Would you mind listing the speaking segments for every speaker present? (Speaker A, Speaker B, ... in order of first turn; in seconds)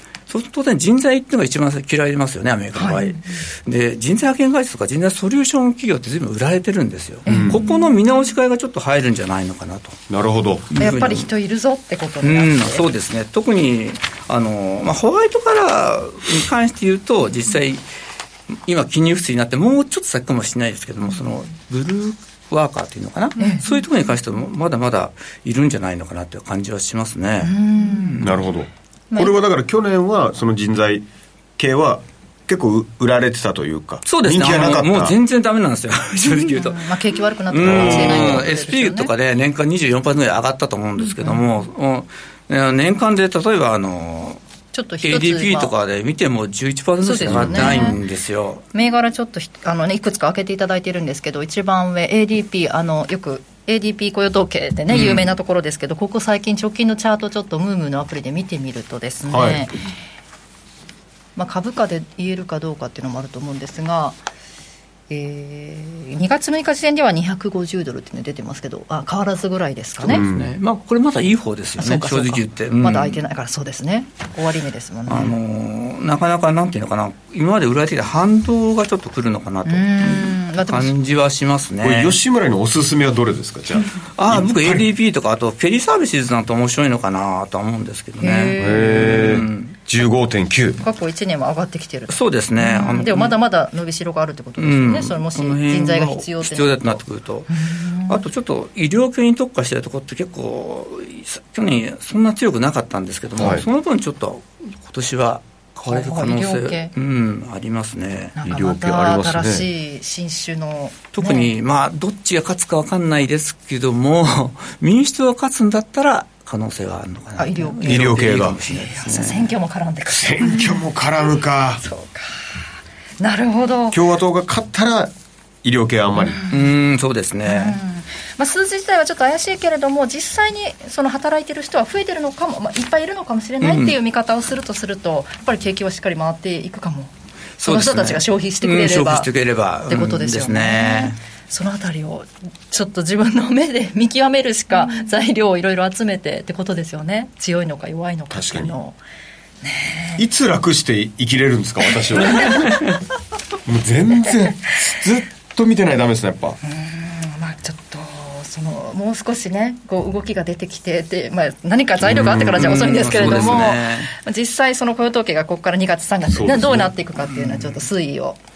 Speaker A: 0.3-10.0, 10.7-11.3, 12.2-17.9, 18.7-28.4, 34.0-36.9, 37.5-44.4, 45.0-48.6, 54.9-55.2, 70.0-73.2, 75.1-82.2, 84.2-89.8, 92.1-93.3, 94.6-97.5, 98.1-108.3, 111.1-119.5, 126.5-127.8, 133.6-134.0, 137.6-141.2, 162.1-164.1, 167.4-167.8
Speaker B: 2.8-3.1, 7.3-7.8, 10.8-12.9, 27.4-28.3, 29.1-29.4, 36.5-39.1, 44.7-45.7, 47.0-48.0, 48.7-59.8, 61.4-64.2, 65.1-70.2, 71.8-75.3, 79.7-80.9, 88.2-89.3, 90.8-97.0, 97.5-98.3, 105.9-106.9, 108.3-111.5, 117.4-118.0, 118.7-120.7, 121.8-122.6, 123.2-124.0, 126.2-126.7, 127.5-137.1, 137.6-139.3, 139.9-149.0, 149.6-150.2, 152.3-152.5, 156.6-168.4
Speaker C: 7.3-7.6, 10.1-10.7, 28.2-31.1, 31.6-35.2, 37.6-38.5, 47.3-47.8, 59.3-59.7, 70.1-70.5, 81.8-84.9, 88.6-90.8, 103.4-103.7, 108.4-109.7, 117.8-118.6, 120.1-121.8, 123.9-126.4, 148.3-148.8, 150.2-152.9, 153.7-156.6, 162.0-163.6, 166.3-166.9